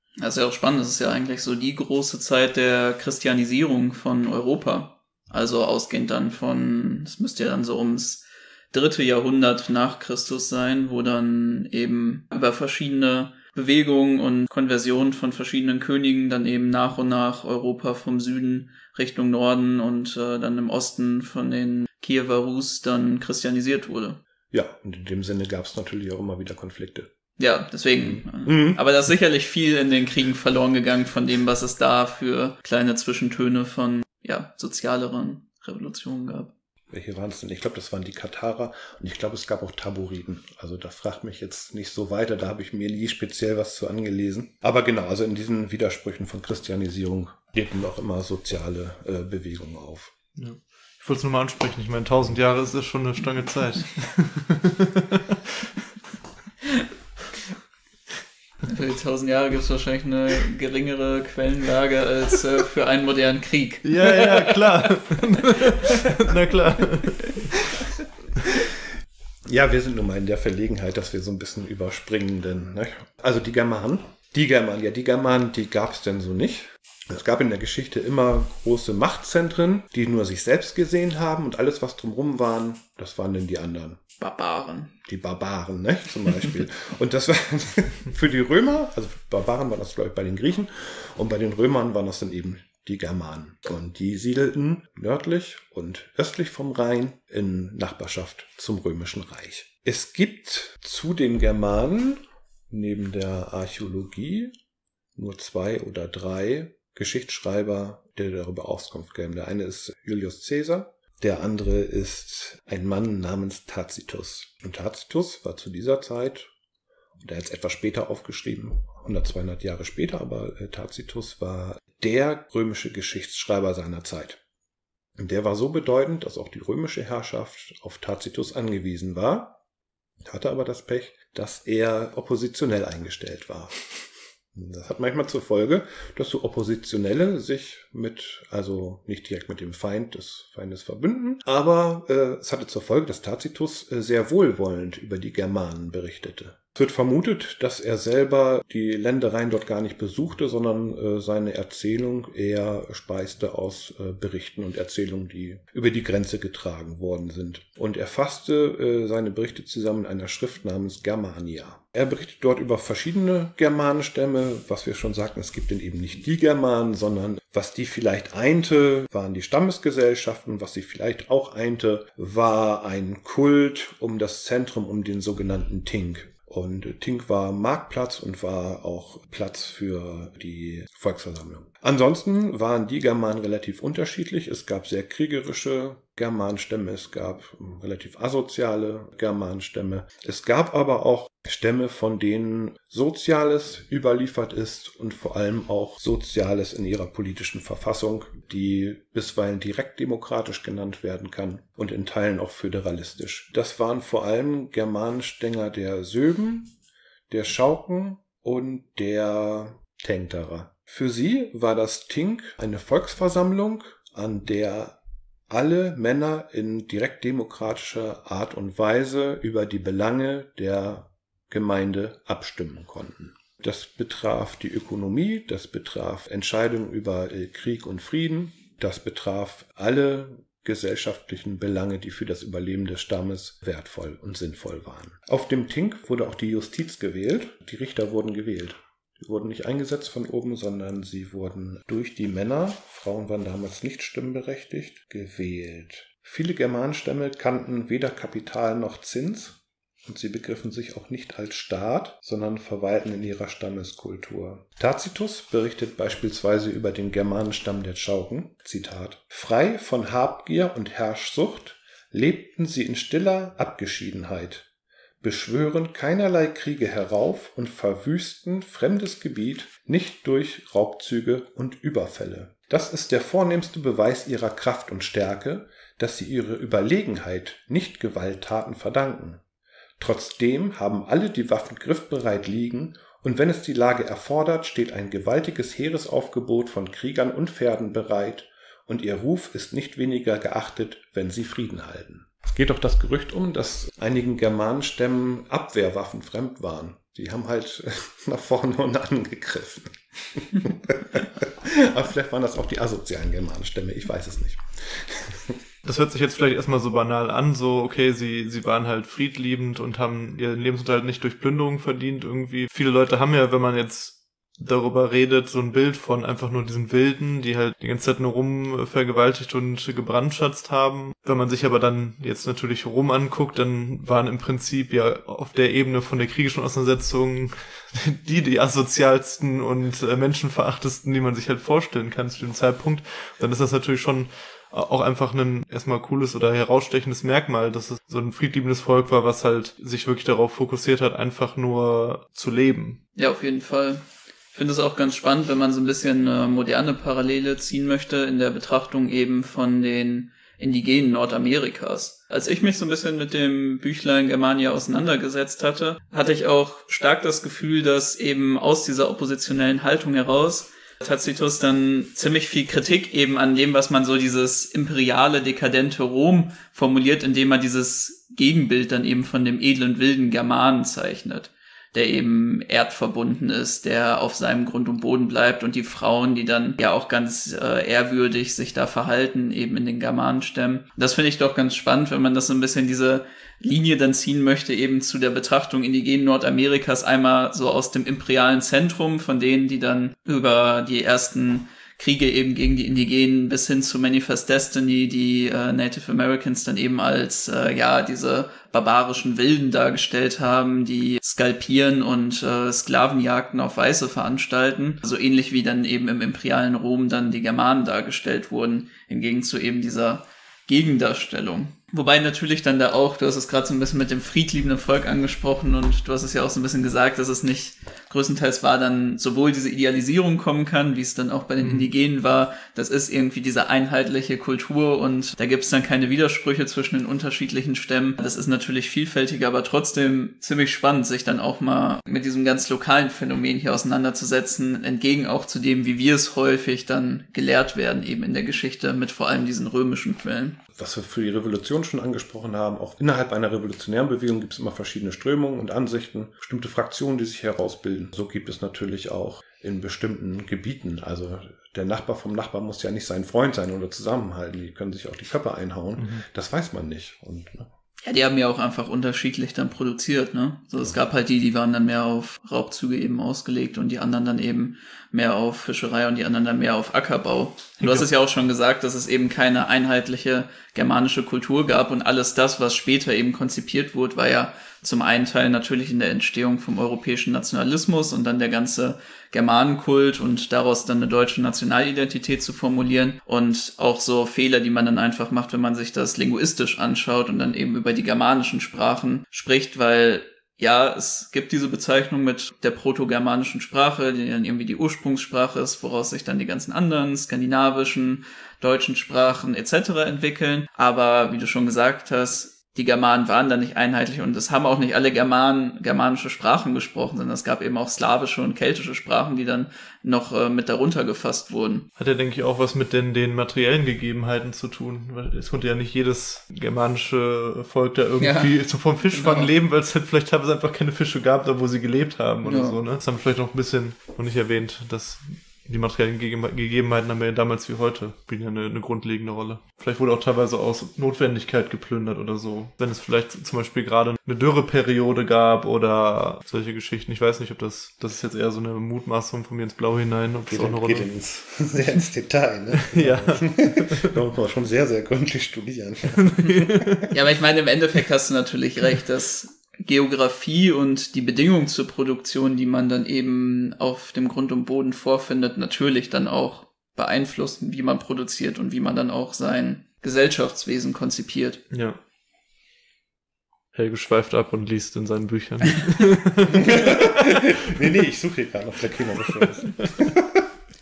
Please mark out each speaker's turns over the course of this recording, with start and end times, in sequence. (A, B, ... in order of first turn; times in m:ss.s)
0:00.2-0:24.2 A
0:24.5-0:27.1 B
0:27.4-0:36.5 A
0:28.0-0:28.8 B
0:36.9-0:50.1 B
0:50.4-0:55.6 C
0:58.7-1:04.9 A
1:03.8-1:07.6 C
1:09.5-1:24.0 B
1:24.2-1:24.9 A
1:25.0-1:44.5 B
1:45.1-1:56.5 B
1:57.2-2:04.4 B
2:05.2-2:09.6 B
2:10.2-3:26.7 B
3:27.3-3:35.0 B
3:35.5-4:24.7 B
4:25.2-4:39.4 B
4:40.0-5:05.6 B
5:05.8-5:43.0 C
5:43.2-7:20.6 A
7:01.6-7:01.9 C
7:20.7-7:37.7 B
7:36.0-7:36.2 C
7:38.0-8:31.9 A
7:47.8-7:48.1 C
8:32.0-9:01.1 C
8:38.2-8:38.5 A
8:39.1-8:39.5 A
8:42.4-8:42.8 A
9:00.5-9:07.0 B
9:02.8-9:04.1 C
9:06.1-9:07.1 C
9:07.1-9:21.6 A
9:21.7-9:22.0 C
9:23.7-9:27.7 C
9:26.5-9:30.5 B
9:29.4-9:29.9 C